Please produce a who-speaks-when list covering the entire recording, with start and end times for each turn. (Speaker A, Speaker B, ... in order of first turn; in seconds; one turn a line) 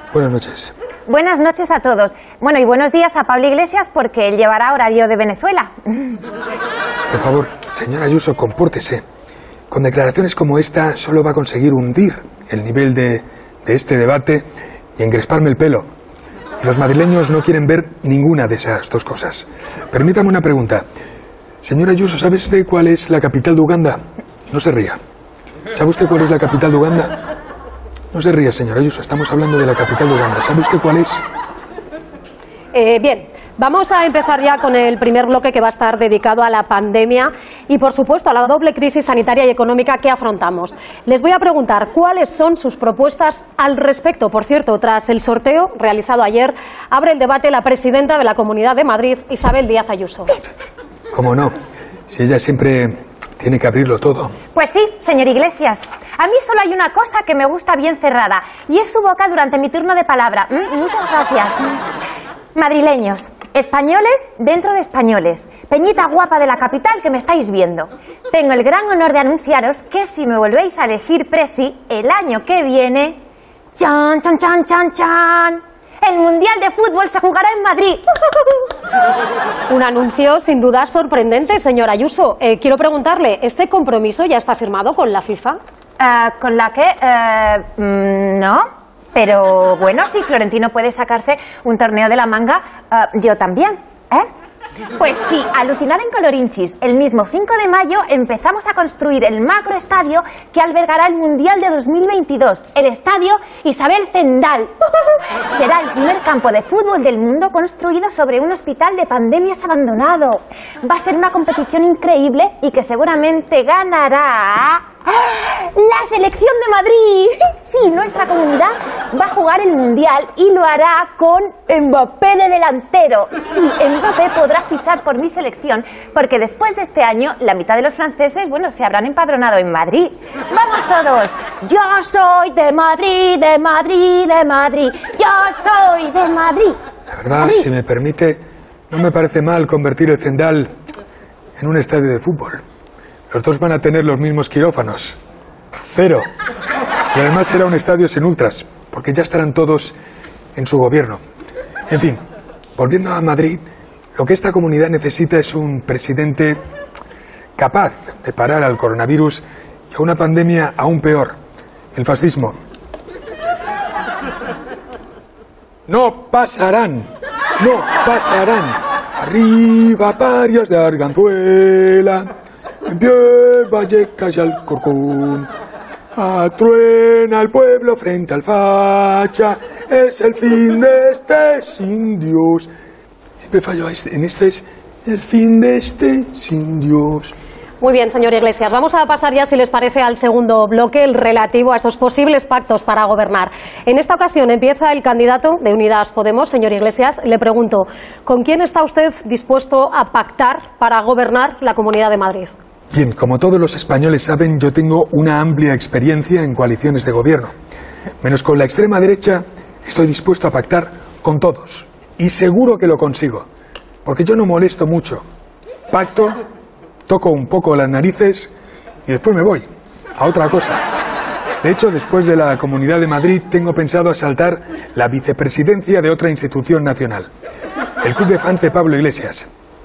Speaker A: 0.1-0.7
Speaker B: 1.1-6.2
Speaker A: 7.1-9.0
Speaker A: 9.7-15.8
Speaker A: 16.6-20.8
Speaker A: 21.6-24.0
Speaker A: 24.5-25.0
Speaker A: 25.7-27.2
Speaker A: 28.1-31.2
Speaker C: 32.7-50.4
Speaker A: 51.1-51.5
Speaker A: 52.1-54.4
Speaker B: 54.5-61.8
Speaker B: 62.5-73.2
Speaker B: 73.8-78.7
Speaker C: 79.7-85.6
Speaker B: 86.0-94.2
Speaker B: 95.0-136.7
Speaker A: 137.1-140.7
Speaker B: 137.4-137.7
Speaker A: 141.6-142.6
Speaker A: 143.3-145.2
Speaker A: 145.9-146.2
Speaker A: 147.1-149.9
Speaker A: 150.5-151.2
Speaker A: 151.9-152.2
Speaker A: 152.8-156.6
Speaker A: 157.6-161.3
Speaker A: 161.9-162.6
Speaker A: 165.9-167.1
Speaker A: 167.6-172.3
Speaker A: 172.8-175.5
Speaker A: 176.1-182.7
Speaker A: 183.4-187.3
Speaker C: 187.8-202.5
Speaker A: 202.9-207.5
Speaker A: 208.2-213.4
Speaker A: 214.0-215.2
Speaker A: 215.9-216.4
Speaker A: 217.1-218.5
Speaker A: 219.1-219.7
Speaker A: 220.2-220.8
Speaker A: 221.6-227.3
Speaker A: 228.0-229.4